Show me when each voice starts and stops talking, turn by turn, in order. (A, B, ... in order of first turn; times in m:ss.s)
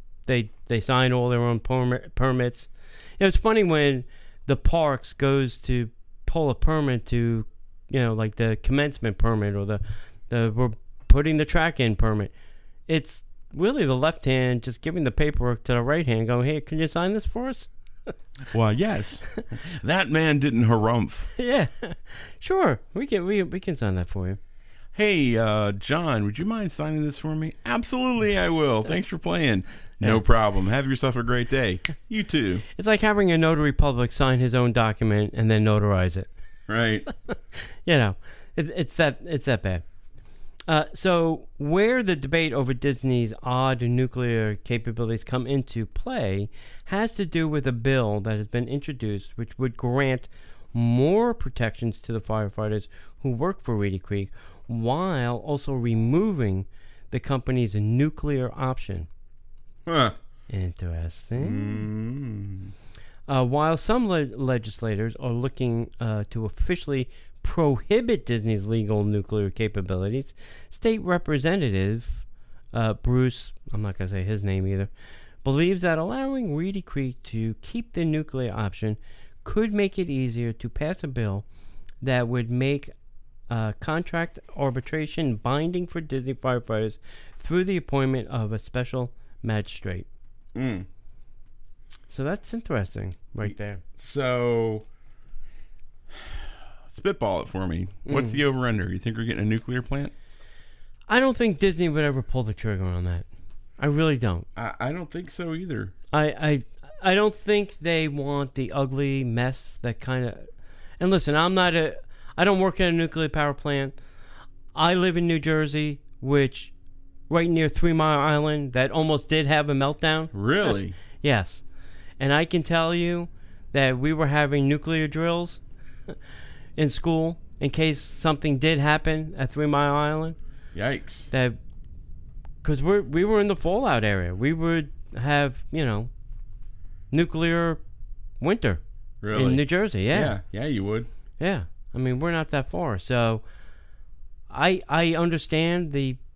0:00.2-0:12.3 A
0:12.9-0:18.1 A
0:18.5-0:21.3 B
0:21.4-0:24.4 A
0:24.9-0:32.6 B
0:32.8-0:36.3 A
0:36.7-0:37.0 B
0:37.3-0:39.9 A
0:40.7-0:59.1 A
0:59.9-1:00.2 B
1:00.5-1:01.9 A
1:01.4-1:02.7 B
1:03.3-1:14.9 A
1:15.4-1:21.5 A
1:22.0-1:22.9 A
1:23.5-1:30.1 A
1:30.5-1:30.9 B
1:32.1-1:33.8 A
1:33.4-1:34.9 B
1:36.2-1:40.1 B
1:38.0-1:38.4 A
1:41.1-1:43.3 A
1:43.8-1:44.5 A
1:44.6-1:46.0 B
1:46.1-1:50.5 A
1:51.0-1:54.0 A
1:54.7-1:56.7 A
1:57.3-2:00.3 A
2:00.3-2:01.0 B
2:01.2-2:01.6 A
2:02.2-2:06.2 A
2:06.8-2:10.4 A
2:10.7-2:11.3 B
2:11.3-2:11.6 A
2:12.6-2:16.1 A
2:17.1-2:17.8 A
2:18.4-2:18.8 A
2:19.2-2:21.1 B
2:19.3-2:20.4 A
2:21.4-2:23.4 A
2:24.5-2:26.2 A